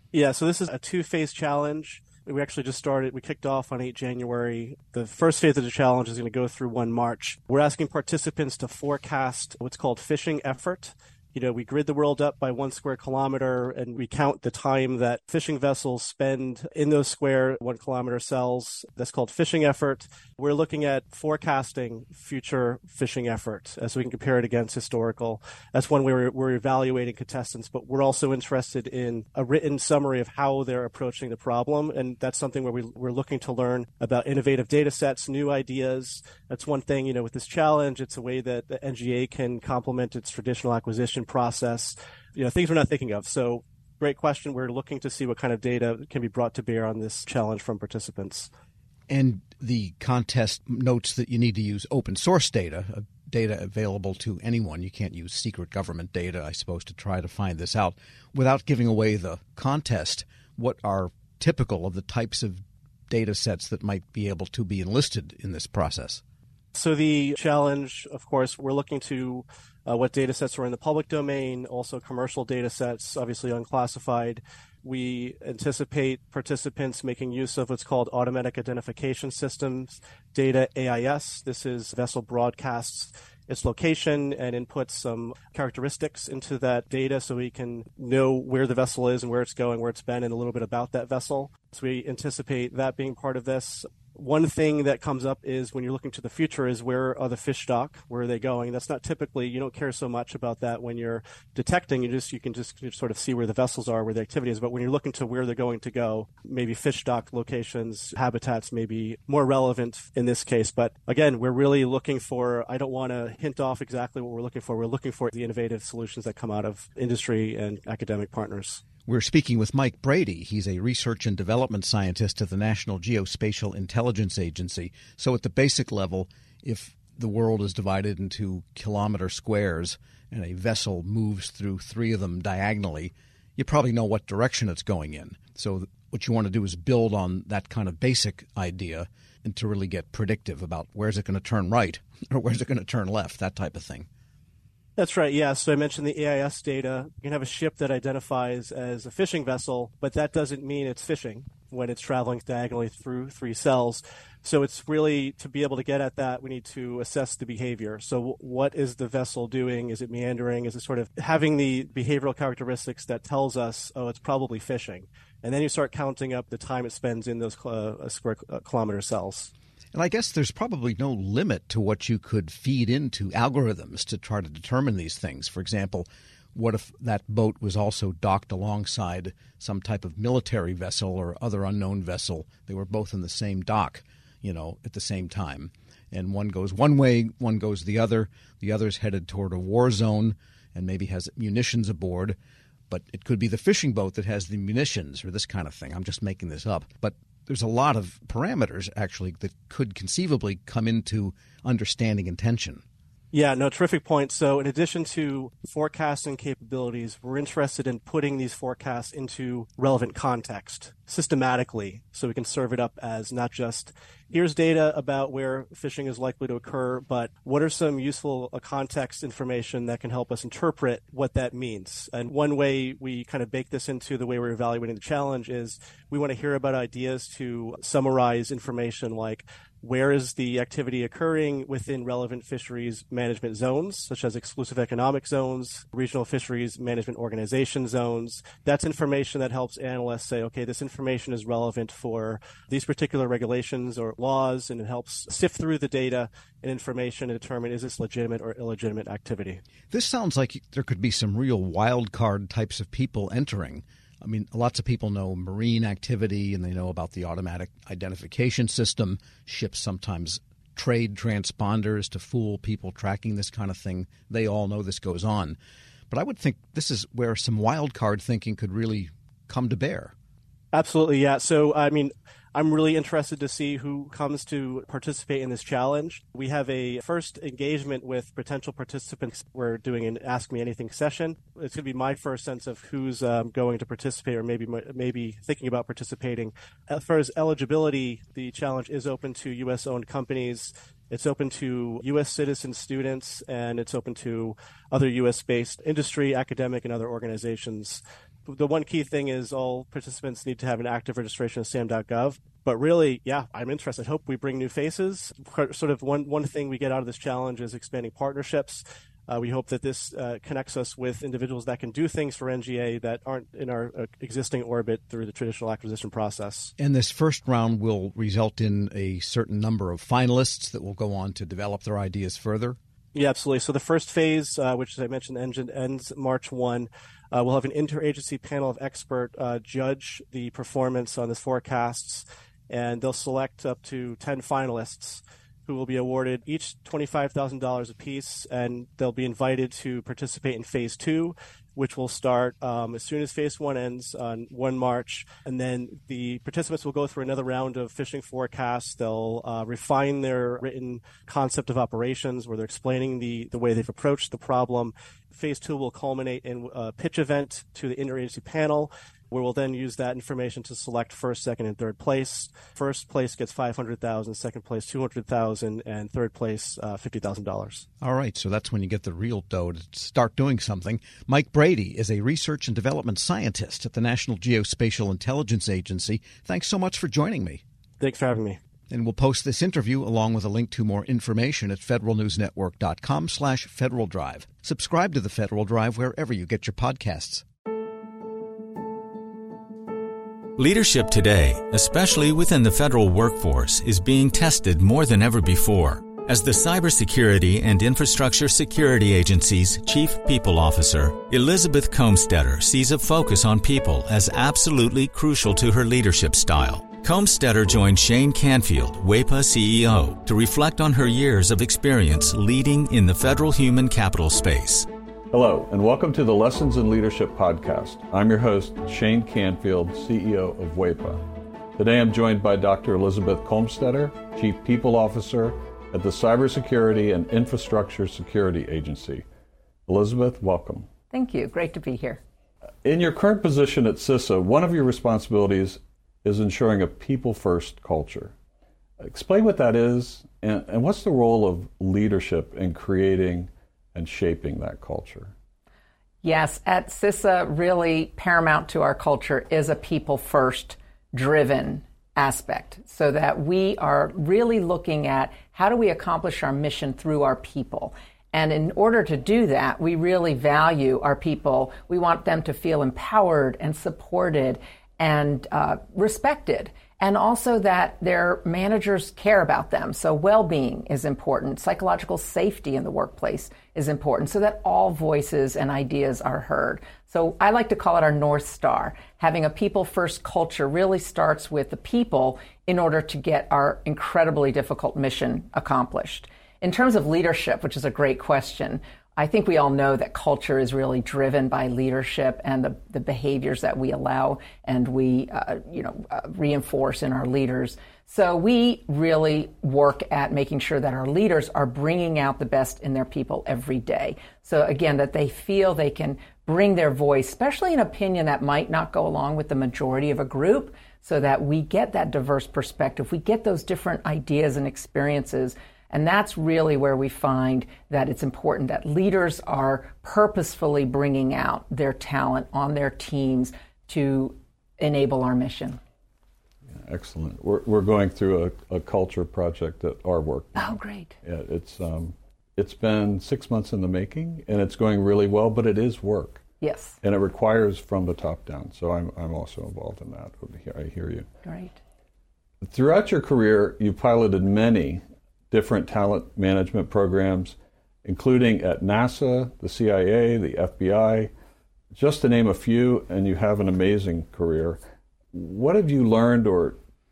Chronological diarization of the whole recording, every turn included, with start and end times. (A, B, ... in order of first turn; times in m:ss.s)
0:00.1-0:48.5 A
0:49.1-1:06.2 B
1:06.7-1:58.8 A
1:59.1-2:24.1 B
2:25.0-2:49.5 A
2:49.9-3:12.4 B
3:12.9-3:22.8 B
3:23.3-4:09.6 A
4:09.9-4:25.6 B
4:26.1-4:30.1 B
4:30.7-5:16.7 A
5:16.8-5:22.8 B
5:23.1-6:07.9 A
6:08.0-6:17.6 B
6:18.0-6:18.6 A
6:18.9-6:27.4 B
6:30.6-6:54.9 C
6:55.3-7:01.2 D
7:01.8-7:09.2 D
7:09.9-7:10.9 D
7:11.1-7:12.2 E
7:12.8-7:18.3 D
7:19.0-7:25.3 D
7:26.2-8:45.8 E
8:46.8-8:56.4 D
8:50.6-8:51.2 E
8:56.6-8:57.0 E
8:57.0-9:01.3 D
9:01.4-9:01.8 E
9:02.6-9:11.3 D
9:11.9-9:14.8 D
9:15.3-9:16.8 D